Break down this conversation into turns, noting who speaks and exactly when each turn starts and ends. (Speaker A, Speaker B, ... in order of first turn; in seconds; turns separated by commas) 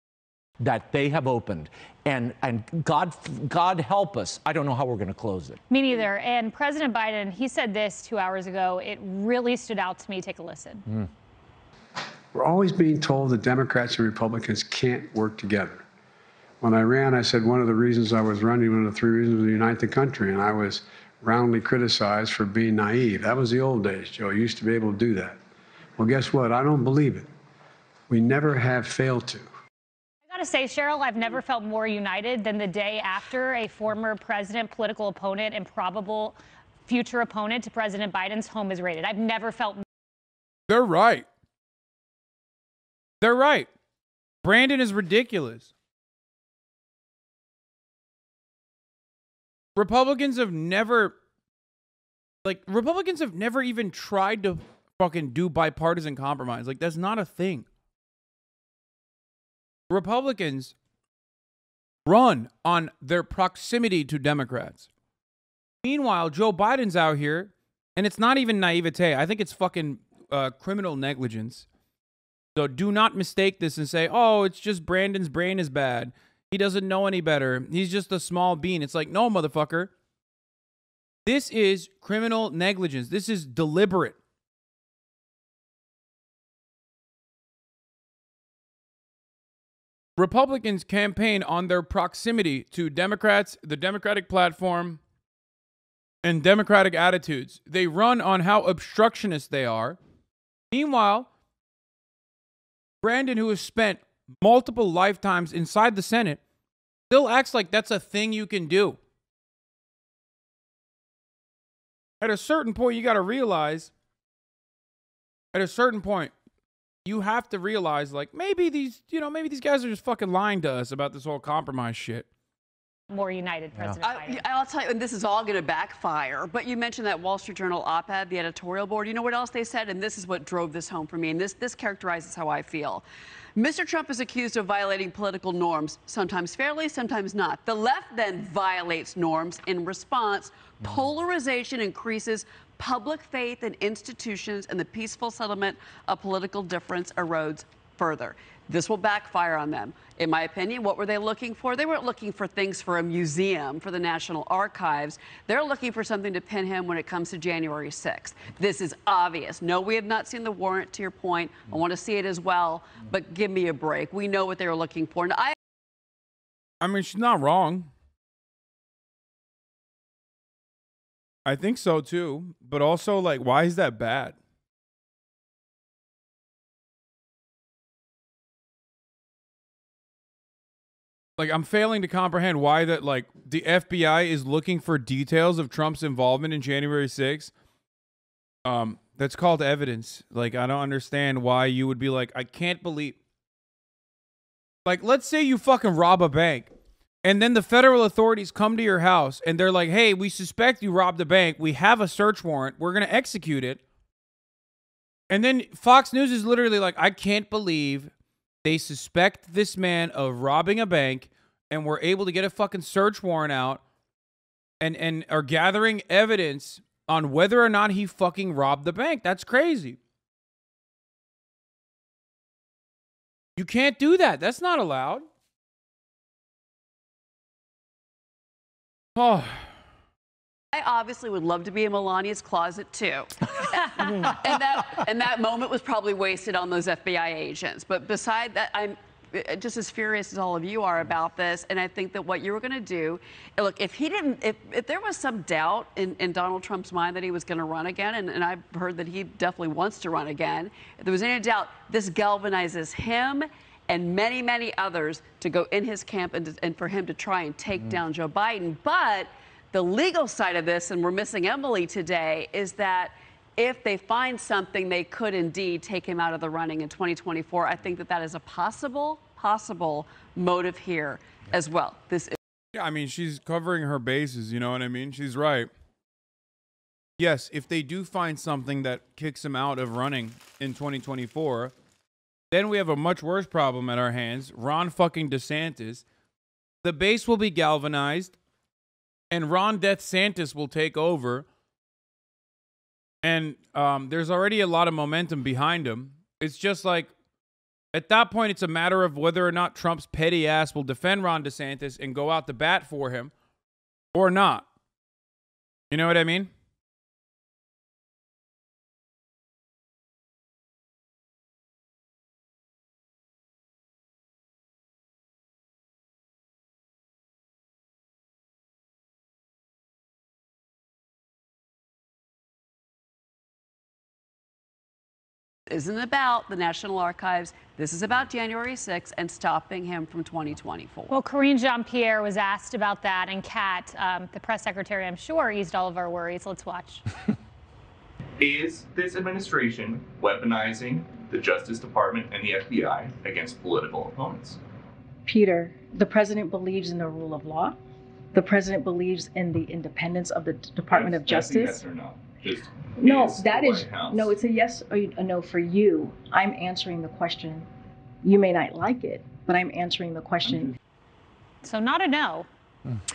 Speaker A: 0.6-5.6, Speaker B: 5.7-10.8, Speaker C: 12.3-15.8, Speaker C: 16.6-25.4, Speaker C: 26.0-27.3, Speaker C: 28.1-29.5, Speaker B: 30.3-36.4, Speaker B: 36.9-39.8, Speaker D: 40.7-41.3, Speaker D: 43.2-43.7, Speaker D: 44.4-45.7, Speaker D: 49.8-51.1, Speaker D: 52.4-57.7, Speaker D: 59.9-60.7, Speaker D: 62.1-64.9, Speaker D: 65.8-71.7, Speaker D: 72.5-79.9, Speaker D: 81.3-84.2, Speaker D: 90.2-95.0, Speaker D: 96.2-100.0, Speaker D: 100.7-101.3, Speaker D: 103.0-106.4, Speaker D: 107.1-109.0, Speaker D: 112.2-113.9, Speaker D: 115.5-116.3, Speaker D: 117.0-122.3, Speaker B: 123.1-124.4, Speaker E: 124.0-133.0, Speaker E: 133.6-165.6, Speaker D: 166.8-167.9, Speaker D: 171.4-174.4, Speaker D: 181.4-187.5, Speaker D: 188.7-193.2, Speaker D: 194.9-196.7, Speaker D: 197.2-203.8, Speaker D: 205.3-208.1, Speaker D: 208.6-213.8, Speaker D: 214.8-220.0, Speaker D: 223.6-225.2, Speaker D: 229.2-229.7, Speaker E: 230.7-233.3, Speaker E: 234.3-272.4, Speaker D: 272.7-275.7, Speaker D: 277.2-281.7, Speaker D: 282.5-286.0, Speaker D: 286.8-288.4, Speaker D: 289.3-291.5, Speaker D: 293.2-297.1, Speaker D: 297.9-303.3, Speaker D: 304.1-304.7, Speaker D: 305.9-306.5, Speaker E: 325.7-331.1, Speaker B: 331.1-337.0, Speaker F: 338.4-344.6, Speaker G: 345.3-347.8, Speaker G: 348.3-351.8, Speaker F: 350.9-354.3, Speaker G: 353.0-357.7, Speaker G: 358.2-360.8, Speaker B: 361.6-362.5